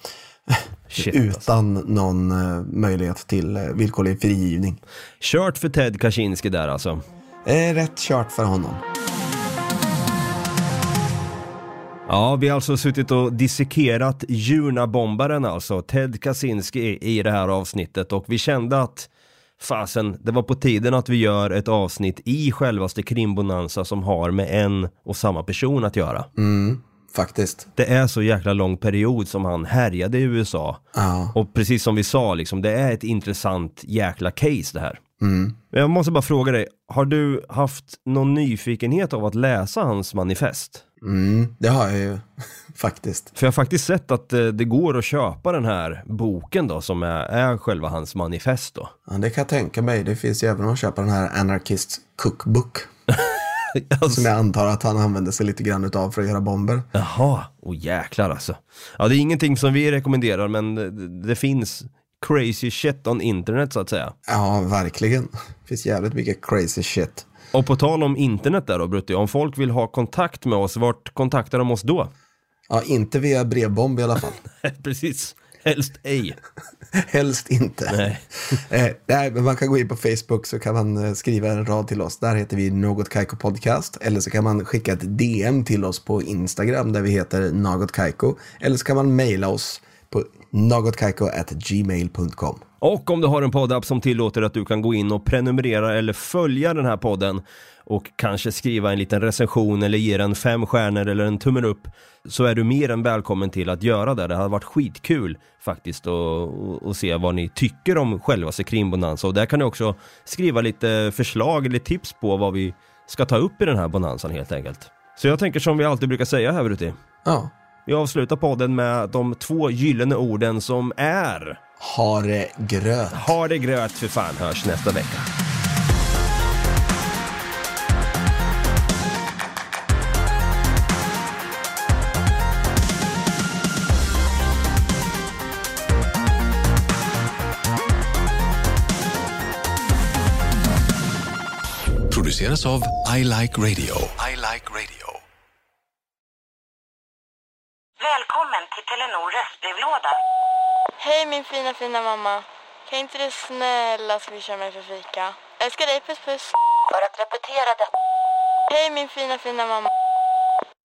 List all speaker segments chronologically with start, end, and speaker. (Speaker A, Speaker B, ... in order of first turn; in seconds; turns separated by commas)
Speaker A: 0.5-4.8, Speaker B: 0.9-1.5, Speaker B: 5.2-7.0, Speaker A: 7.5-8.8, Speaker B: 12.1-26.3, Speaker A: 26.4-27.7, Speaker B: 27.8-30.8, Speaker A: 30.9-31.4, Speaker B: 31.3-35.0, Speaker A: 35.2-35.6, Speaker B: 35.7-40.8, Speaker A: 41.0-43.3, Speaker B: 43.4-48.9, Speaker A: 49.1-52.9, Speaker B: 53.1-54.3, Speaker A: 54.1-56.9, Speaker B: 57.0-64.2, Speaker A: 64.3-67.3, Speaker B: 67.5-72.1, Speaker A: 72.7-74.4, Speaker B: 74.5-76.4, Speaker A: 76.9-92.6, Speaker B: 77.9-78.5, Speaker B: 92.8-117.0, Speaker A: 117.2-117.5, Speaker B: 117.9-121.6, Speaker A: 121.8-123.3, Speaker B: 123.1-125.3, Speaker C: 142.1-145.2, Speaker D: 148.0-150.2, Speaker E: 151.0-156.6, Speaker D: 156.9-157.9, Speaker E: 158.7-159.9